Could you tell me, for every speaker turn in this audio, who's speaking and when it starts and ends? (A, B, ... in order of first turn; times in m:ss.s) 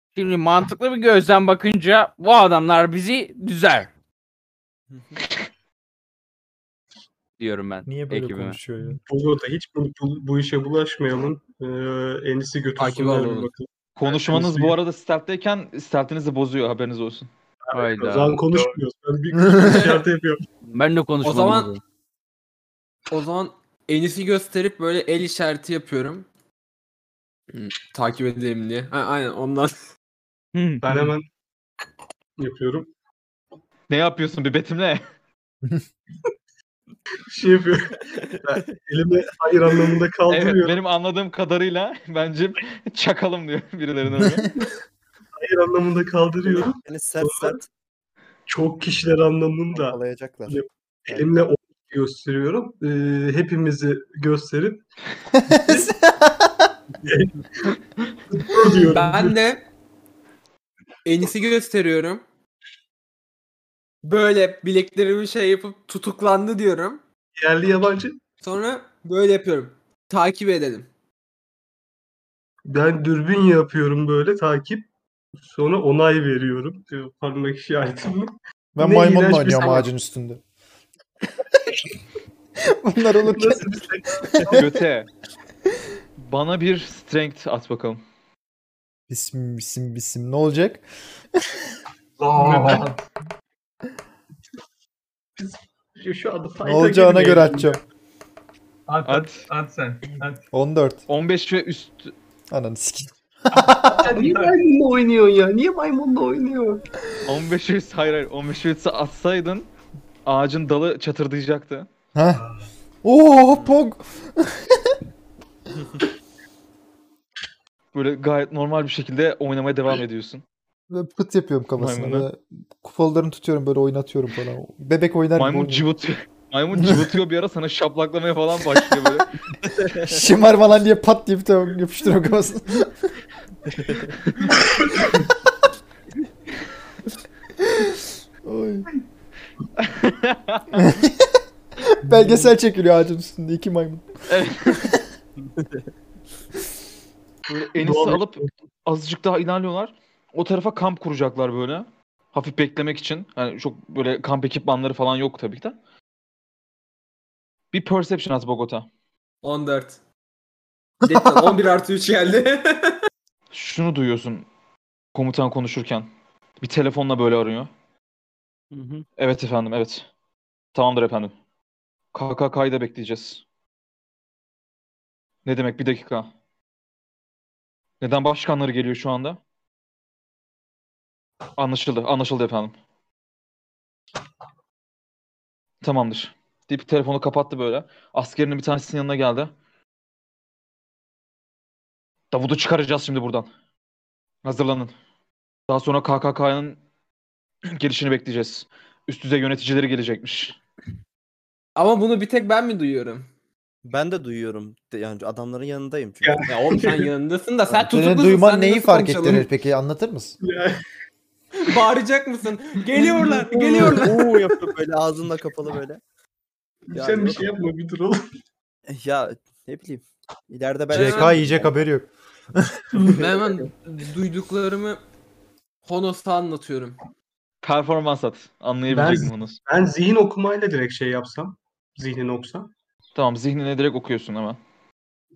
0:00.2-0:03.9 A
0:04.9-0:05.2 B
0:07.4-0:08.6 A
0:07.8-0:09.0 C
0:09.0-0:14.8 D
0:12.8-0:13.5 E
0:14.0-0:17.3 F
0:17.7-0:20.5 D
0:17.7-0:18.4 A
0:19.6-0:20.0 E
0:20.7-0:21.8 A
0:21.2-0:21.8 E
0:23.1-0:26.3 E
0:27.5-0:29.8 E
0:30.5-0:30.8 A
0:30.8-0:31.2 D
0:32.4-0:32.9 D
0:33.9-0:35.0 F
0:37.3-0:40.8 D
0:40.3-0:44.5 F
0:45.4-0:47.6 D
0:46.4-0:47.7 B
0:48.5-0:54.8 D
0:49.7-0:51.3 B
0:55.4-0:56.7 C
0:55.6-0:55.9 D
0:56.9-0:57.8 D
0:58.3-0:59.4 D
0:58.9-0:59.6 E
1:01.0-1:02.2 E
1:04.0-1:07.0 E
1:07.4-1:08.2 D
1:08.4-1:10.9 E
1:12.7-1:14.9 D
1:15.4-1:19.9 D
1:18.8-1:20.4 C
1:22.6-1:23.7 C
1:23.2-1:24.6 D
1:24.3-1:24.8 C
1:24.5-1:25.1 F
1:26.2-1:28.0 F
1:29.1-1:30.8 C
1:32.2-1:33.0 G
1:32.3-1:32.9 D
1:35.4-1:37.8 D
1:36.6-1:37.8 C
1:38.9-1:40.4 G
1:39.0-1:39.4 F
1:40.5-1:41.0 C
1:41.1-1:42.1 F
1:42.5-1:44.2 C
1:44.0-1:46.8 D
1:44.1-1:44.5 G
1:47.2-1:49.7 F
1:50.2-1:51.9 F
1:52.1-1:52.4 C
1:52.3-1:52.6 D
1:53.0-1:54.9 C
1:57.9-2:00.4 F
2:00.9-2:05.8 C
2:01.8-2:02.3 F
2:05.4-2:09.3 F
2:06.8-2:07.1 C
2:10.0-2:13.1 C
2:17.6-2:17.9 C
2:18.4-2:18.8 C
2:19.8-2:20.8 F
2:20.7-2:24.1 C
2:22.1-2:22.5 D
2:24.3-2:24.9 F
2:24.7-2:25.0 C
2:27.5-2:35.8 F
2:27.8-2:28.5 D
2:37.7-2:38.9 F
2:39.4-2:40.0 E
2:41.0-2:43.0 E
2:41.0-2:41.6 C
2:43.5-2:44.5 F
2:45.1-2:46.1 F
2:46.6-2:47.7 F
2:48.7-2:49.0 A
2:49.2-2:50.1 F
2:50.7-2:51.3 F
2:52.1-2:53.4 F
2:55.4-2:56.3 F
2:58.0-2:59.4 F
3:01.6-3:02.7 F
3:05.8-3:09.5 F
3:12.3-3:13.5 F
3:14.4-3:14.9 F
3:15.7-3:16.8 F
3:17.7-3:20.6 F
3:21.8-3:23.3 E
3:23.8-3:26.4 B
3:26.2-3:27.1 D
3:26.5-3:29.5 E
3:27.8-3:30.4 C
3:30.4-3:30.8 D
3:31.6-3:34.2 E
3:32.9-3:34.4 D
3:33.8-3:36.0 B
3:36.9-3:38.2 D
3:36.9-3:37.5 B
3:38.9-3:41.8 B
3:40.9-3:43.1 C
3:40.9-3:41.4 E
3:42.9-3:43.6 D
3:43.2-3:45.0 E
3:45.8-3:47.0 E
3:47.6-3:49.6 F
3:48.9-3:52.7 D
3:53.1-3:54.6 F